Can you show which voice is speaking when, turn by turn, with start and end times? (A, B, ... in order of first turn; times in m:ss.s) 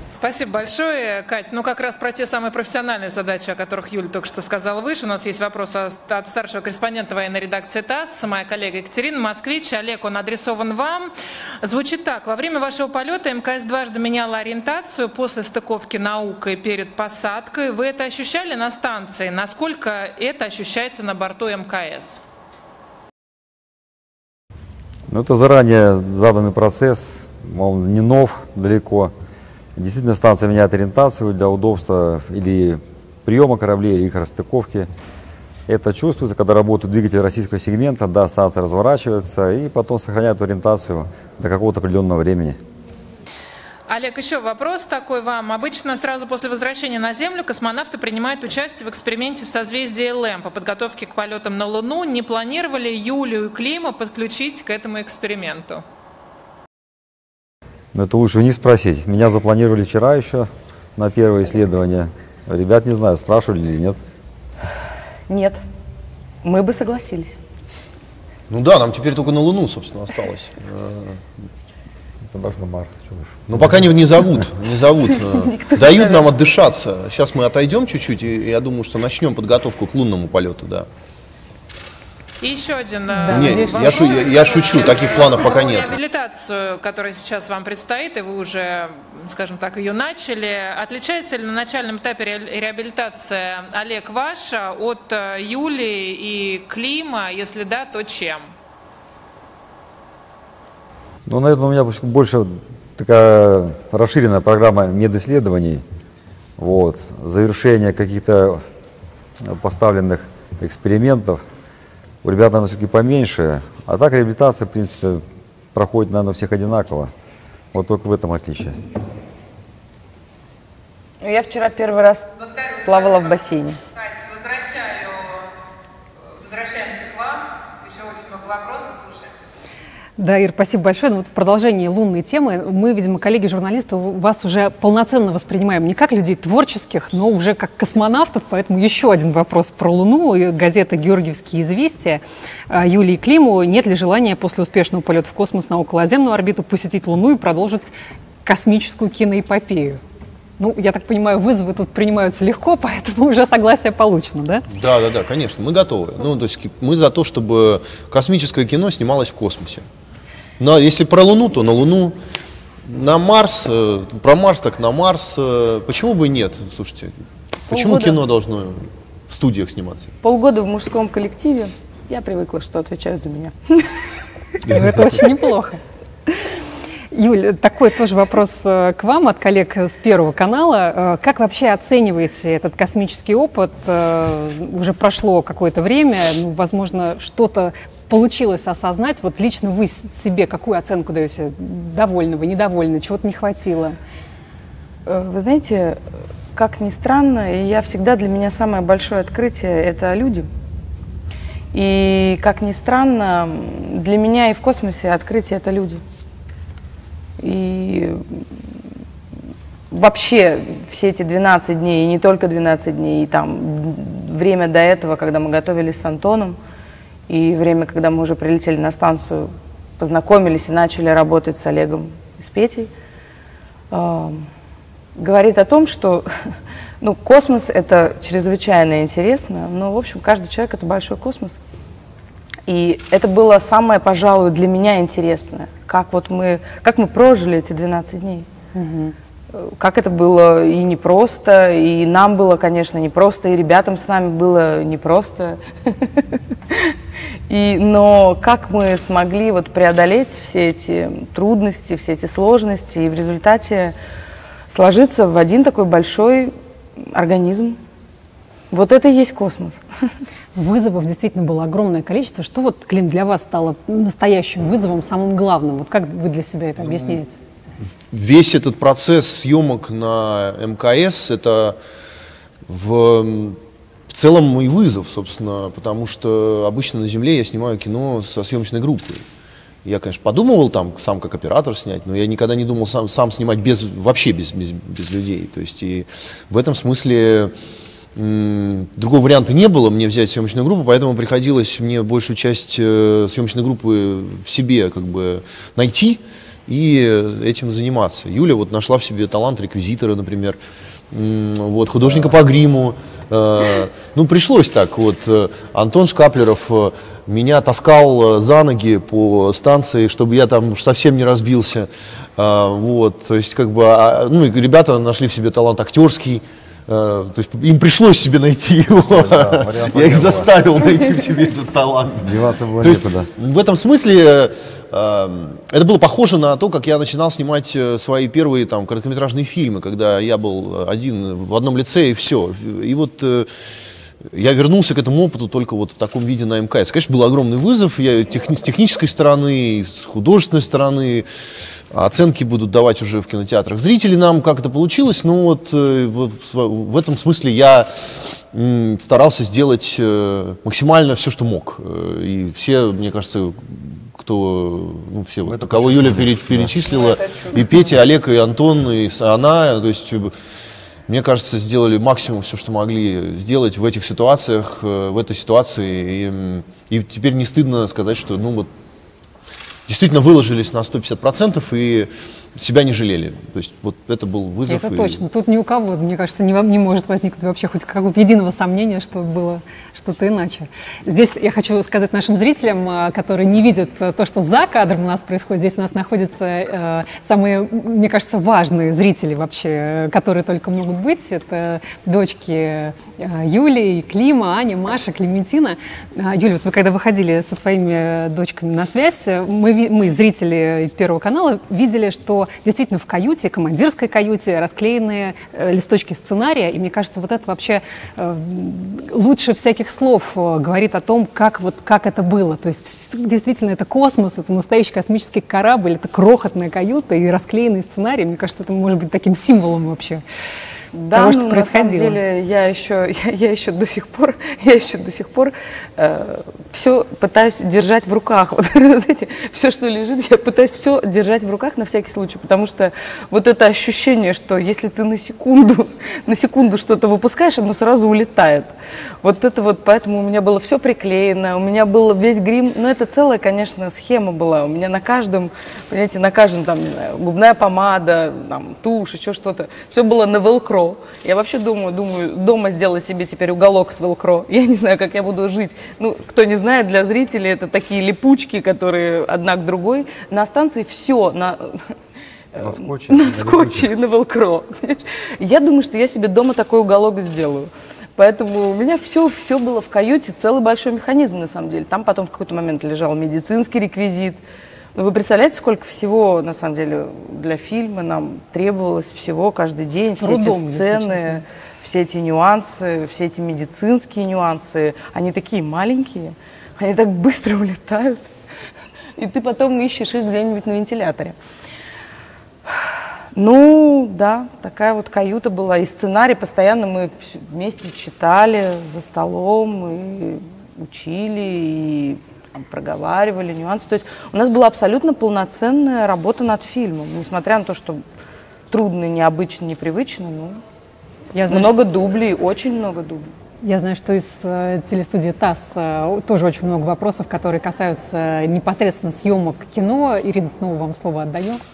0:00.2-0:11.1 A
0:11.6-0:22.2 A
0:25.1-0:29.1 B
0:29.8-0:34.9 B
0:35.7-0:42.6 B
0:43.9-0:55.8 A
0:57.9-1:04.0 B
1:05.3-1:05.6 C
1:06.4-1:07.4 C
1:08.5-1:11.2 D
1:12.3-1:13.8 B
1:13.5-1:20.9 D
1:15.2-1:16.3 C
1:22.4-1:38.5 A
1:23.1-1:24.0 E
1:23.3-1:25.9 D
1:41.2-1:45.8 B
1:46.6-1:48.6 B
1:49.4-1:51.4 B
1:52.2-1:55.2 B
1:55.7-1:57.1 B
1:57.7-1:58.8 B
2:01.2-2:03.8 C
2:04.1-2:05.2 A
2:06.4-2:09.2 A
2:10.2-2:27.9 E
2:28.4-2:30.0 E
2:30.6-2:34.6 E
2:34.7-2:39.8 D
2:40.6-2:42.2 D
2:42.8-2:50.1 D
2:47.7-2:48.2 C
2:50.2-2:54.1 C
2:54.6-2:55.8 E
2:54.7-2:55.1 D
2:57.1-3:14.0 E
3:15.0-3:16.0 C
3:16.5-3:20.5 C
3:21.7-3:26.0 C
3:27.4-3:28.4 C
3:29.9-3:36.6 C
3:37.3-3:42.9 C
3:43.9-3:44.5 C
3:45.2-3:46.3 C
3:47.0-3:51.6 C
3:52.7-3:58.5 C
3:58.7-3:59.1 E
3:59.5-4:06.9 C
4:07.5-4:13.9 C
4:14.7-4:16.5 C
4:17.1-4:17.8 C
4:18.7-4:19.8 C
4:20.5-4:27.4 E
4:26.8-4:27.2 D
4:28.1-4:31.8 D
4:32.7-4:33.6 D
4:34.1-4:39.2 D
4:39.8-4:47.5 D
4:48.2-5:00.6 D
5:01.1-5:33.5 D
5:19.1-5:20.5 B
5:22.2-5:23.3 B
5:34.3-5:41.2 D
5:41.9-5:47.9 D
5:48.5-6:00.3 D
5:55.4-5:56.7 B
6:01.1-6:08.7 D
6:09.9-6:15.2 D
6:14.7-7:00.2 E
7:00.9-7:41.9 C
7:01.1-7:02.2 E
7:42.5-7:54.4 C
7:42.6-7:43.9 B
7:54.9-8:08.3 C
8:00.2-8:01.4 E
8:09.2-8:11.4 C
8:13.3-8:28.0 C
8:28.7-8:30.6 C
8:31.3-8:31.8 E
8:31.5-8:33.3 C
8:33.6-8:41.6 E